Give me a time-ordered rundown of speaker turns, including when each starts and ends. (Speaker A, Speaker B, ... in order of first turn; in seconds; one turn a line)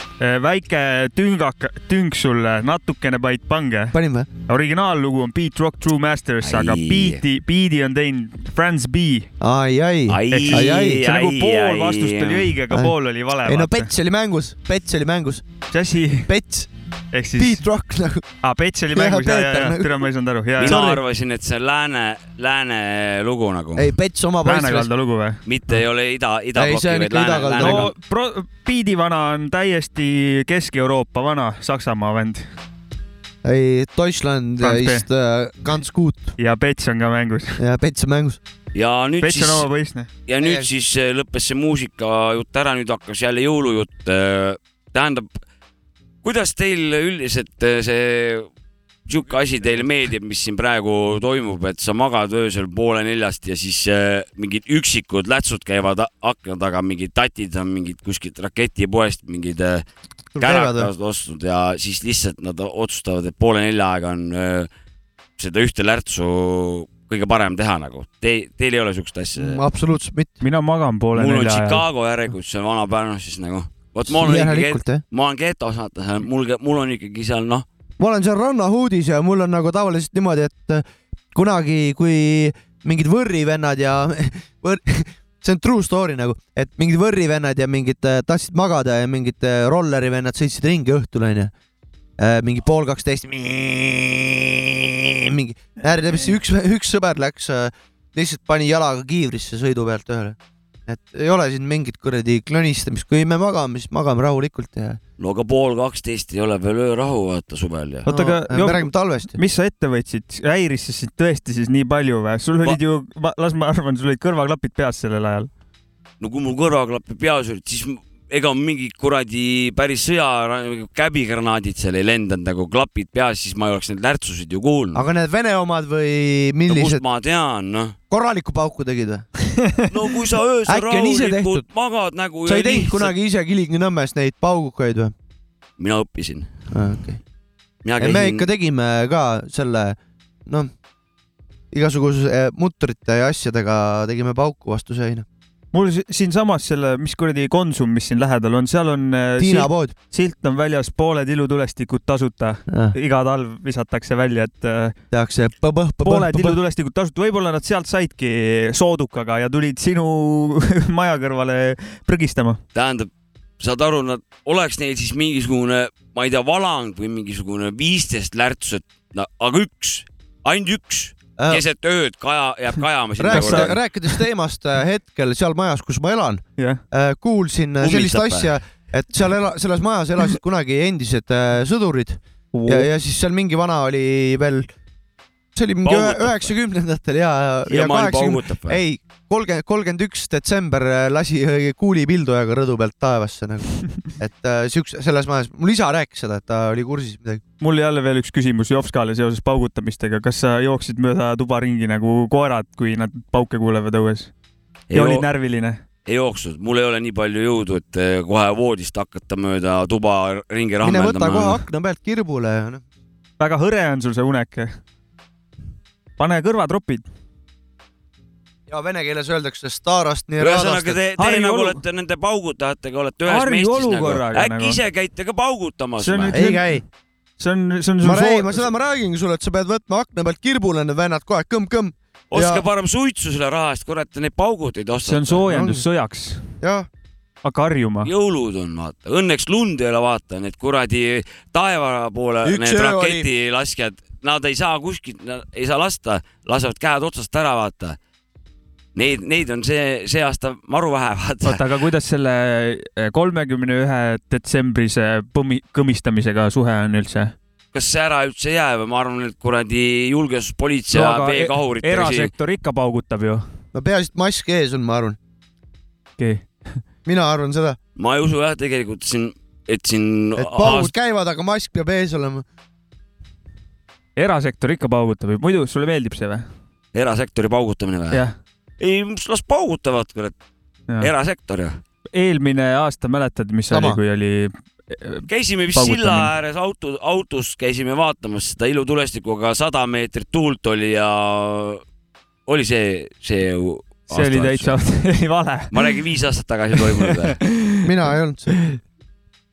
Speaker A: 0.2-4.0
Speaker B: 3.9-4.3
Speaker A: 4.5-9.3
Speaker C: 6.4-7.2
Speaker B: 9.4-11.0
Speaker C: 10.1-12.5
Speaker A: 10.3-13.9
Speaker B: 13.4-15.4
Speaker A: 15.7-16.3
Speaker B: 16.2-16.7
Speaker A: 17.1-17.6
Speaker B: 17.4-18.2
Speaker A: 18.4-21.0
Speaker B: 18.9-20.0
Speaker C: 20.6-23.9
Speaker B: 23.8-24.9
Speaker A: 24.4-25.4
Speaker C: 25.4-27.9
Speaker B: 26.6-27.9
Speaker A: 27.6-32.5
Speaker B: 33.4-36.3
Speaker A: 34.6-35.0
Speaker A: 36.4-37.6
Speaker B: 37.6-38.4
Speaker C: 38.7-39.7
Speaker A: 39.2-40.1
Speaker C: 40.3-45.4
Speaker B: 40.4-40.7
Speaker C: 46.2-48.5
Speaker C: 49.1-59.8
Speaker B: 60.4-60.9
Speaker C: 60.4-64.7
Speaker C: 65.4-69.6
Speaker B: 69.4-70.4
Speaker A: 70.4-71.8
Speaker C: 71.2-77.7
Speaker B: 74.1-75.0
Speaker B: 78.0-91.5
Speaker B: 92.2-105.0
Speaker C: 105.2-108.1
Speaker B: 108.1-109.4
Speaker A: 108.1-115.5
Speaker C: 116.2-125.1
Speaker B: 124.9-127.0
Speaker C: 126.7-128.0
Speaker B: 128.1-129.2
Speaker C: 129.9-133.2
Speaker B: 130.7-131.7
Speaker B: 132.4-135.1
Speaker C: 135.8-136.7
Speaker B: 136.7-137.2
Speaker C: 137.8-138.5
Speaker B: 138.0-140.7
Speaker B: 141.7-145.3
Speaker A: 145.7-154.9
Speaker B: 149.4-149.9
Speaker B: 152.7-152.9
Speaker B: 155.1-156.6
Speaker A: 156.0-162.6
Speaker C: 162.7-173.8
Speaker B: 173.2-184.7
Speaker A: 173.3-173.8
Speaker C: 177.8-178.5
Speaker A: 182.5-182.9
Speaker B: 185.6-197.4
Speaker C: 185.8-186.5
Speaker C: 187.7-188.8
Speaker A: 197.6-204.3
Speaker C: 204.9-205.3
Speaker A: 204.9-205.8
Speaker C: 206.1-211.6
Speaker B: 210.8-212.8
Speaker A: 213.4-214.8
Speaker A: 216.2-217.1
Speaker B: 218.7-221.0
Speaker C: 220.4-226.4
Speaker A: 221.2-221.8
Speaker A: 223.3-224.8
Speaker A: 226.0-226.8
Speaker B: 226.3-226.8
Speaker A: 227.4-228.7
Speaker B: 228.0-232.6
Speaker C: 232.3-235.4
Speaker A: 235.1-236.5
Speaker B: 235.5-235.8
Speaker B: 236.6-236.9
Speaker A: 237.4-238.1
Speaker C: 238.0-248.0
Speaker B: 242.4-243.3
Speaker C: 248.9-251.6
Speaker A: 251.4-257.4
Speaker C: 257.7-262.3
Speaker A: 260.9-263.4
Speaker B: 263.7-265.2
Speaker A: 266.2-266.8
Speaker B: 267.1-267.8
Speaker C: 268.0-270.9
Speaker B: 270.4-272.4
Speaker A: 274.2-276.5
Speaker C: 276.9-278.2
Speaker C: 278.8-280.4
Speaker C: 281.0-281.8
Speaker A: 282.1-286.3
Speaker B: 283.7-284.0
Speaker C: 285.3-291.8
Speaker C: 292.5-294.8
Speaker A: 294.1-295.7
Speaker C: 295.7-297.4
Speaker B: 297.8-298.5